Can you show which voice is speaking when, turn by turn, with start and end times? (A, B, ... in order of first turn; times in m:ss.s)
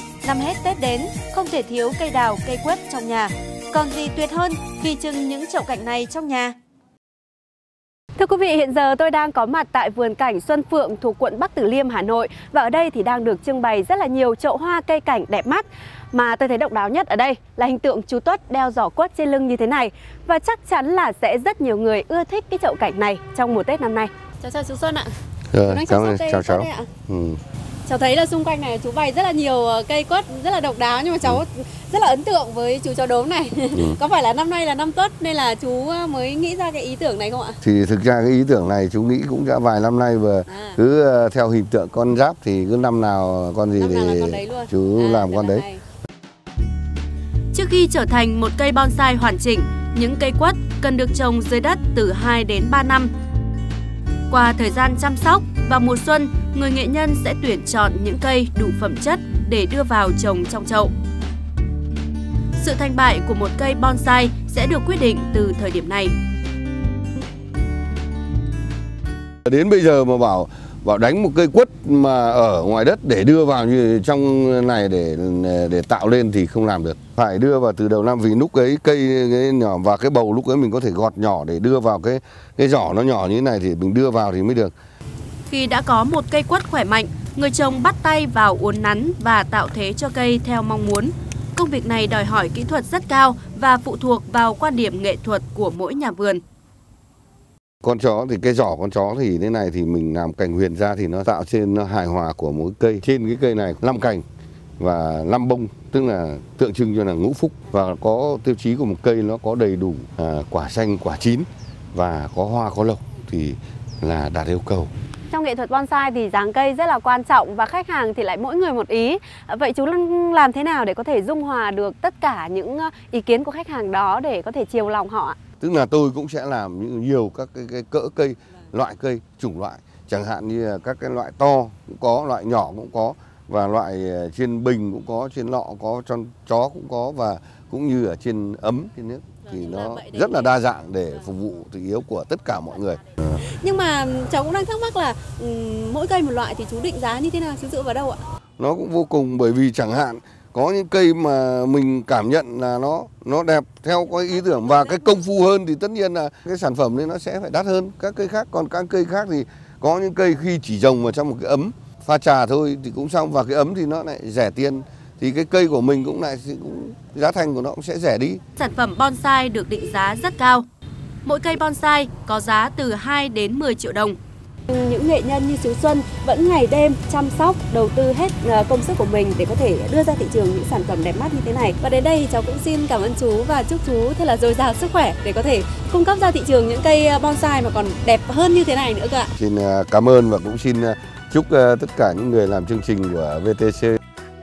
0:00.2-0:06.6 A
0:08.2-0:25.1 A
0:25.5-0:27.4 B
0:25.6-0:26.9 A
0:27.8-0:37.6 A
0:37.6-0:45.6 B
0:40.5-0:40.8 A
0:43.8-0:45.8 A
0:47.5-0:53.1 A
0:54.3-1:00.9 A
1:02.6-1:06.1 A
1:09.4-1:24.7 B
1:25.5-1:36.4 A
1:37.8-1:44.2 B
1:44.8-1:54.9 B
1:55.3-2:05.4 A
2:05.6-2:23.1 B
2:19.4-2:20.6 A
2:23.4-2:28.2 A
2:28.6-2:48.4 B
2:48.6-2:50.7 A
2:51.2-3:09.3 A
3:09.4-3:14.0 B